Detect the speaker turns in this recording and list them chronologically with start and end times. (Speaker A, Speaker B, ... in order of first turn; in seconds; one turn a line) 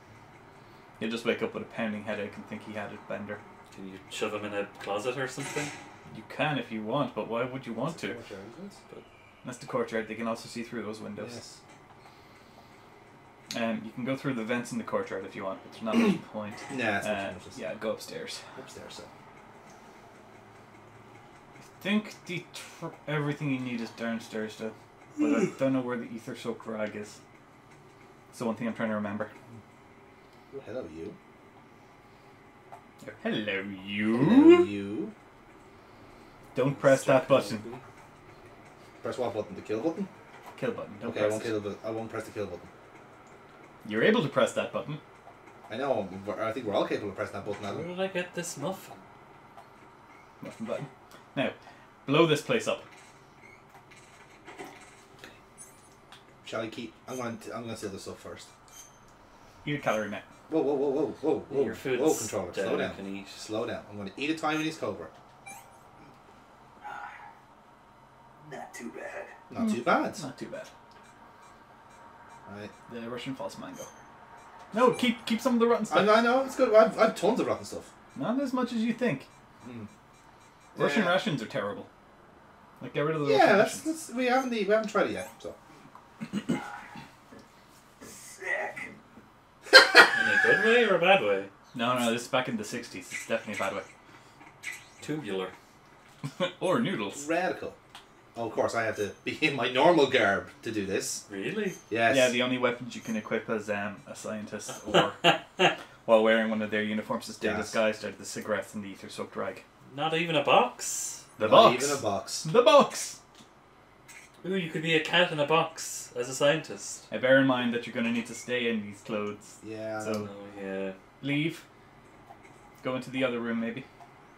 Speaker A: 1.0-3.4
Speaker B: 3.7-5.7
Speaker A: 6.1-8.2
Speaker C: 7.9-8.8
Speaker A: 9.4-11.4
Speaker C: 11.2-11.6
Speaker A: 13.5-18.4
Speaker C: 16.7-17.6
Speaker C: 18.6-19.1
Speaker A: 21.8-27.2
Speaker A: 28.3-29.3
Speaker C: 30.5-31.1
Speaker A: 33.0-34.7
Speaker C: 34.1-35.1
Speaker A: 36.5-37.6
Speaker B: 36.6-37.8
Speaker C: 39.0-40.1
Speaker A: 40.5-41.6
Speaker C: 41.0-42.7
Speaker A: 43.8-45.0
Speaker C: 45.7-47.9
Speaker B: 47.6-49.0
Speaker A: 50.4-51.5
Speaker A: 52.0-52.8
Speaker C: 56.4-58.5
Speaker A: 59.6-60.2
Speaker C: 60.5-65.1
Speaker B: 61.5-63.4
Speaker B: 68.5-69.3
Speaker C: 69.5-70.2
Speaker A: 69.6-70.7
Speaker C: 72.5-72.7
Speaker A: 72.9-73.9
Speaker A: 74.7-76.2
Speaker C: 75.9-77.9
Speaker A: 78.1-79.3
Speaker C: 79.6-79.9
Speaker C: 80.7-81.2
Speaker A: 80.8-81.9
Speaker A: 82.8-83.9
Speaker C: 83.2-85.5
Speaker B: 90.1-91.5
Speaker A: 91.7-93.8
Speaker B: 95.0-95.5
Speaker A: 96.2-97.3
Speaker C: 97.1-97.8
Speaker C: 98.3-101.2
Speaker B: 101.3-101.8
Speaker C: 101.9-102.4
Speaker A: 102.1-105.3
Speaker B: 104.9-105.7
Speaker A: 106.0-109.6
Speaker C: 107.4-107.8
Speaker B: 109.9-111.3
Speaker A: 111.4-113.2
Speaker C: 111.4-112.5
Speaker B: 114.4-117.0
Speaker A: 117.1-120.3
Speaker C: 119.6-120.3
Speaker B: 120.2-121.0
Speaker A: 121.2-121.6
Speaker A: 122.8-123.8